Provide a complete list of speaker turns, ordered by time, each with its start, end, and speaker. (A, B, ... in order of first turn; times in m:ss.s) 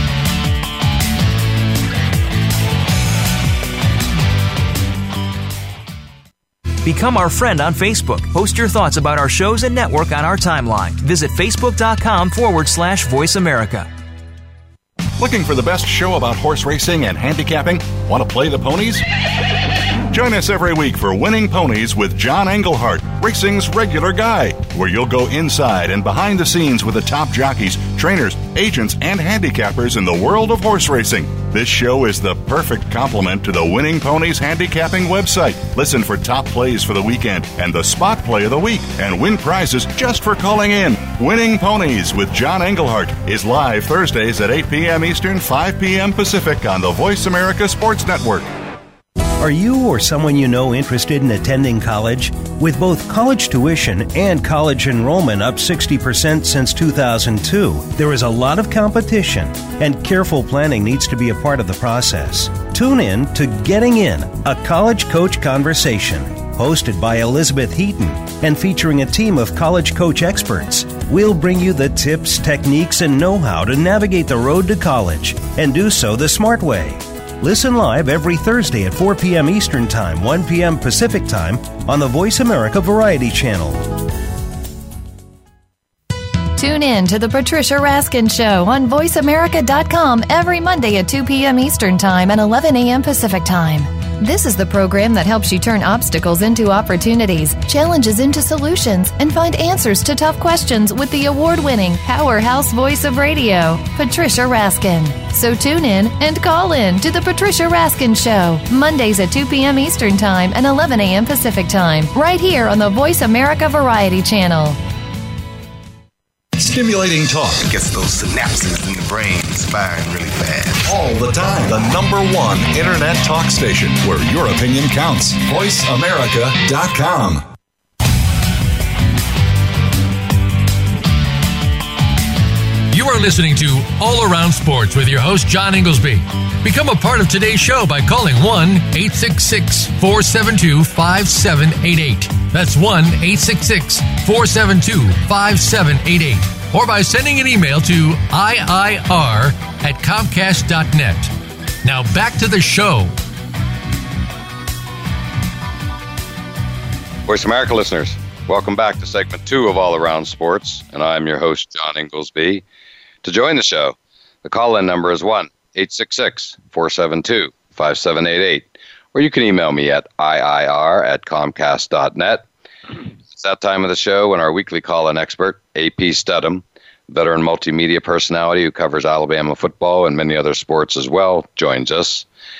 0:06.8-0:13.9 A
0:15.2-0:19.0 B
0:20.1-0:48.5 B
0:49.4-1:24.0 C
1:26.6-1:54.8 D
1:56.6-1:57.6 B
1:57.6-2:00.9 E
2:00.8-2:07.4 B
2:12.9-2:31.3 F
2:31.8-2:33.1 F
2:37.3-2:42.6 G
2:43.2-2:52.4 G
2:53.3-3:02.3 G